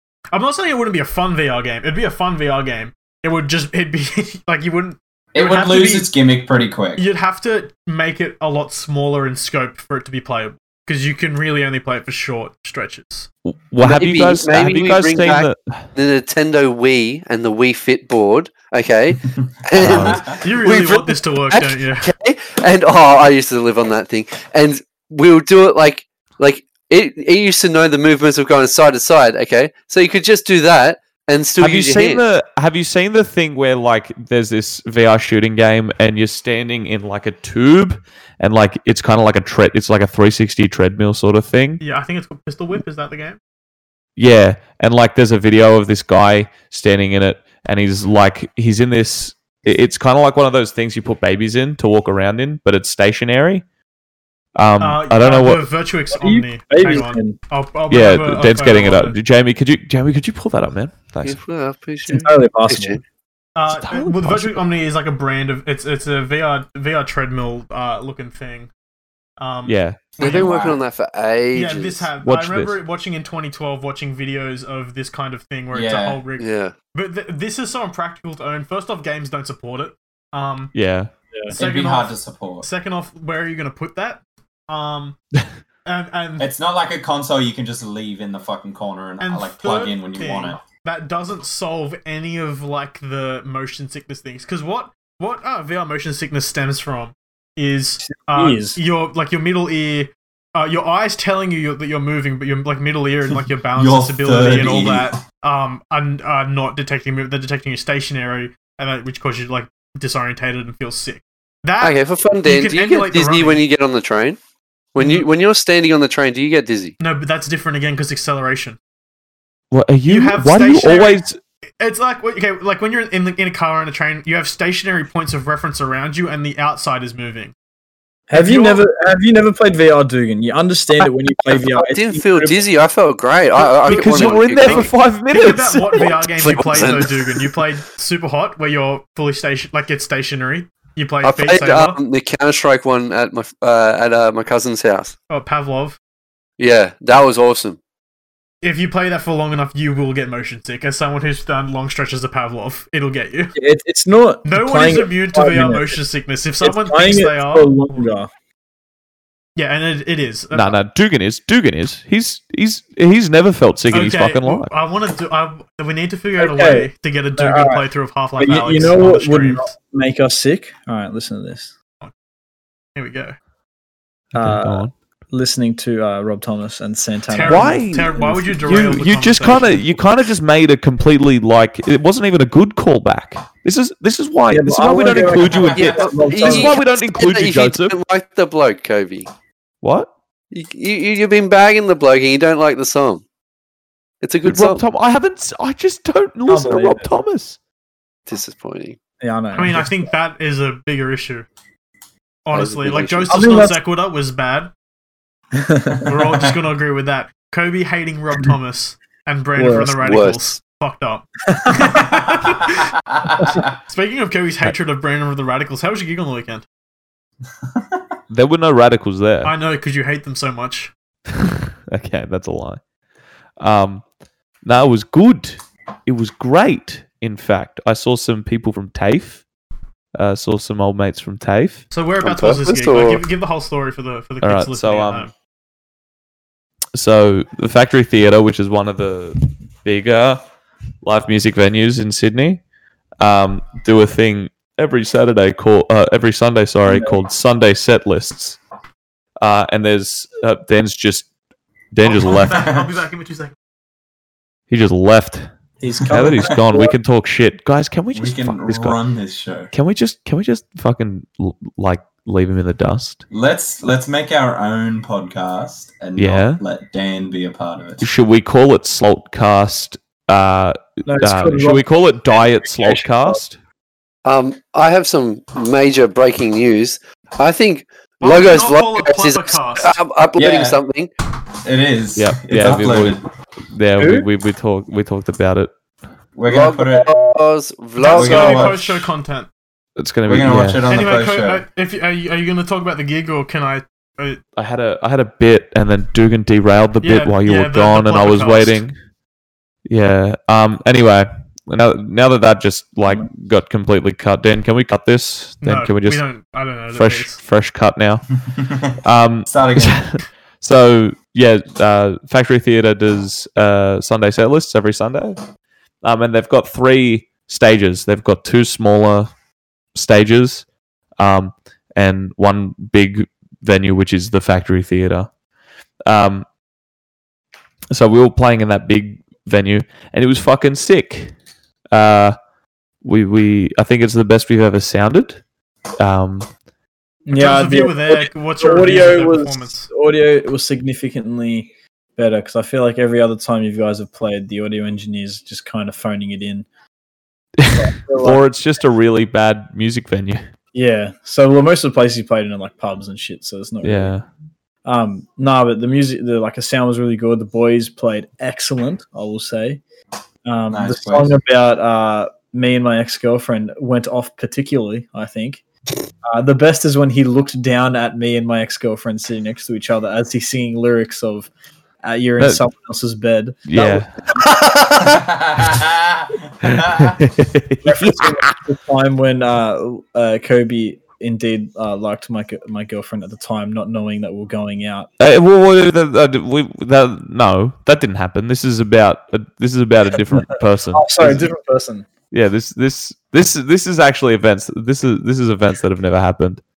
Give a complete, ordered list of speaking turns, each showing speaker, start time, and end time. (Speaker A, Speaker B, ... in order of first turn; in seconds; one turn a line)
Speaker A: 0.3-6.1
Speaker B: 5.3-7.0
Speaker A: 7.0-13.3
Speaker C: 13.5-15.9
Speaker D: 13.8-32.2
Speaker B: 19.8-20.4
Speaker C: 19.8-20.2
Speaker A: 20.3-22.1
Speaker C: 31.6-41.8
Speaker A: 41.8-43.4
Speaker C: 44.2-53.6
Speaker C: 54.6-55.7
Speaker A: 54.8-59.2
Speaker E: 56.1-57.4
Speaker C: 57.9-61.4
Speaker D: 61.2-63.0
Speaker E: 62.1-63.0
Speaker A: 63.6-68.7
Speaker C: 63.7-64.6
Speaker A: 69.4-70.5
Speaker C: 69.7-70.0
Speaker B: 70.2-70.8
Speaker D: 70.2-72.1
Speaker A: 71.5-80.7
Speaker C: 72.2-72.8
Speaker B: 75.7-76.2
Speaker D: 76.4-76.7
Speaker C: 80.7-81.1
Speaker A: 81.5-85.2
Speaker B: 81.5-82.7
Speaker A: 85.9-86.5
Speaker B: 86.4-90.6
Speaker A: 89.2-113.6
Speaker E: 98.0-98.8
Speaker B: 103.8-105.2
Speaker D: 111.8-114.4
Speaker D: 114.9-117.0
Speaker A: 115.0-115.3
Speaker A: 117.0-118.8
Speaker C: 119.7-121.4
Speaker A: 120.1-121.2
Speaker A: 121.8-127.5
Speaker E: 128.3-132.7
Speaker A: 128.3-128.8
Speaker D: 131.6-134.9
Speaker C: 133.6-137.0
Speaker A: 133.8-142.0
Speaker D: 136.0-137.5
Speaker D: 141.2-145.1
Speaker A: 145.3-146.0
Speaker D: 146.6-147.8
Speaker A: 148.6-153.6
Speaker E: 153.6-156.0
Speaker A: 154.4-158.1
Speaker E: 156.6-158.3
Speaker A: 159.6-160.8
Speaker C: 160.5-164.7
Speaker A: 163.9-169.7
Speaker E: 166.4-167.8
Speaker E: 168.4-171.7
Speaker A: 173.0-173.3
Speaker C: 174.3-174.9
Speaker E: 174.3-177.9
Speaker A: 177.3-179.8
Speaker C: 177.4-188.0
Speaker E: 184.5-186.8
Speaker B: 185.3-186.2
Speaker D: 185.8-189.3
Speaker C: 189.8-190.1
Speaker D: 190.5-193.2
Speaker D: 194.2-194.8
Speaker C: 194.4-197.6
Speaker E: 196.5-197.1
Speaker D: 198.3-199.0
Speaker E: 199.2-200.0
Speaker A: 199.5-201.5
Speaker A: 202.5-204.7
Speaker D: 202.5-203.3
Speaker E: 203.3-203.8
Speaker E: 205.6-206.1
Speaker A: 206.1-212.9
Speaker B: 206.3-206.5
Speaker E: 209.6-210.1
Speaker D: 210.0-210.5
Speaker E: 211.5-212.0
Speaker B: 213.2-213.7
Speaker A: 213.9-216.7
Speaker B: 217.7-218.0
Speaker C: 218.3-219.5
Speaker A: 219.4-220.9
Speaker C: 221.3-222.8
Speaker C: 223.6-224.1
Speaker C: 224.6-229.4
Speaker C: 230.2-231.8
Speaker A: 231.9-235.3
Speaker D: 232.2-233.2
Speaker C: 234.4-235.3
Speaker C: 236.9-240.4
Speaker C: 241.0-242.6
Speaker C: 243.2-248.6
Speaker E: 246.9-247.2
Speaker C: 249.4-251.3
Speaker C: 251.9-252.7
Speaker A: 252.0-253.5
Speaker B: 252.5-252.9
Speaker C: 254.7-255.5
Speaker E: 255.8-256.9
Speaker C: 256.1-259.0
Speaker B: 256.1-256.4
Speaker B: 258.1-259.7
Speaker C: 259.7-263.2
Speaker B: 263.3-268.1
Speaker C: 266.2-266.6
Speaker C: 268.0-273.6
Speaker E: 271.1-273.4
Speaker D: 274.2-281.1
Speaker A: 278.2-280.0
Speaker B: 280.4-280.8
Speaker B: 281.5-283.3
Speaker C: 282.2-285.7
Speaker E: 284.0-284.3
Speaker B: 286.4-287.1
Speaker D: 286.5-288.8
Speaker A: 288.0-289.5
Speaker B: 288.1-289.1
Speaker C: 290.0-291.1
Speaker B: 290.3-291.6
Speaker A: 290.9-294.4
Speaker C: 294.6-299.0
Speaker A: 297.0-298.8
Speaker C: 299.9-306.2
Speaker A: 305.6-307.4
Speaker C: 306.9-308.2
Speaker B: 308.5-310.1
Speaker C: 309.0-315.4
Speaker C: 316.0-319.3
Speaker C: 319.9-320.6
Speaker C: 321.2-325.3
Speaker C: 326.1-326.5
Speaker C: 327.9-331.3
Speaker C: 331.9-332.4
Speaker C: 333.0-335.4
Speaker C: 336.0-336.5
Speaker E: 337.3-346.7
Speaker A: 337.3-339.9
Speaker C: 347.6-350.4
Speaker E: 347.7-348.5
Speaker E: 350.7-354.1
Speaker C: 353.8-354.3
Speaker E: 354.9-359.8
Speaker E: 360.4-365.6
Speaker B: 360.7-361.4
Speaker E: 366.3-371.5
Speaker E: 372.0-374.5
Speaker C: 373.7-374.1
Speaker B: 374.5-377.2
Speaker C: 376.6-378.5
Speaker E: 377.8-385.1
Speaker C: 385.2-391.5
Speaker E: 390.3-392.1
Speaker C: 392.3-396.6